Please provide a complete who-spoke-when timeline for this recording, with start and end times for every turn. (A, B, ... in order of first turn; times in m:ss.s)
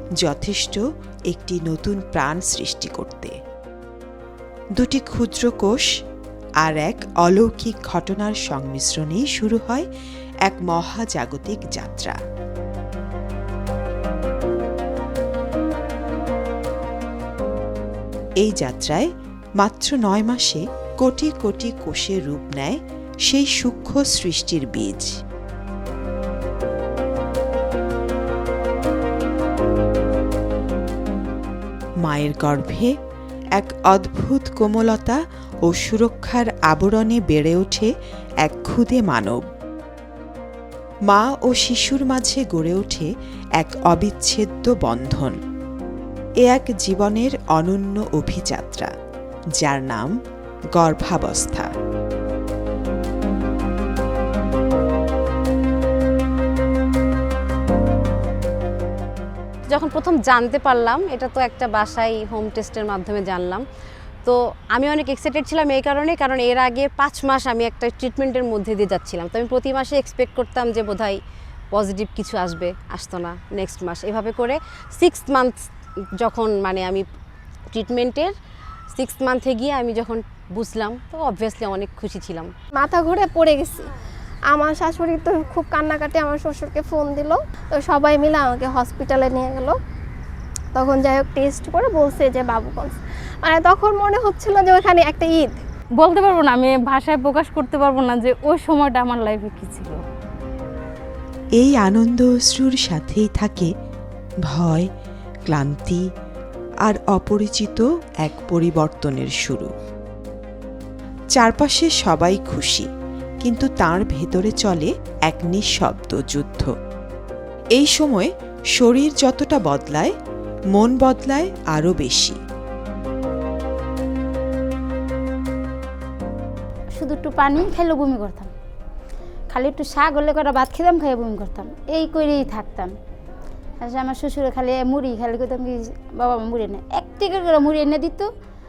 0:00.2-0:03.3 A
0:04.8-0:05.8 A
0:06.6-0:09.9 A
0:10.4-0:12.1 A
0:18.4-0:19.1 A
0:19.6-0:25.1 A
0:32.0-0:32.9 A
0:33.6-0:37.9 A
0:38.4-0:39.4 A
0:41.1-0:45.3 A
0:46.4-0:48.9 A
0:49.6-0:50.1 A
0:50.7-0:51.7 A
0:59.7-1:03.6 B
1:04.2-1:11.2 B
1:11.7-1:15.7 B
1:16.2-1:17.0 B
1:17.7-1:18.3 B
1:18.9-1:22.5 B
1:22.7-1:23.9 C
1:24.5-1:29.8 C
1:30.7-1:35.6 C
1:36.0-1:40.0 D
1:41.6-1:43.7 A
1:44.5-1:44.9 A
1:45.5-1:46.0 A
1:46.8-1:49.7 A
1:51.3-1:52.9 A
1:53.4-1:56.7 A
1:57.8-2:00.1 A
2:00.7-2:02.4 A
2:07.0-2:08.5 E
2:09.5-2:12.9 E
2:13.8-2:18.3 E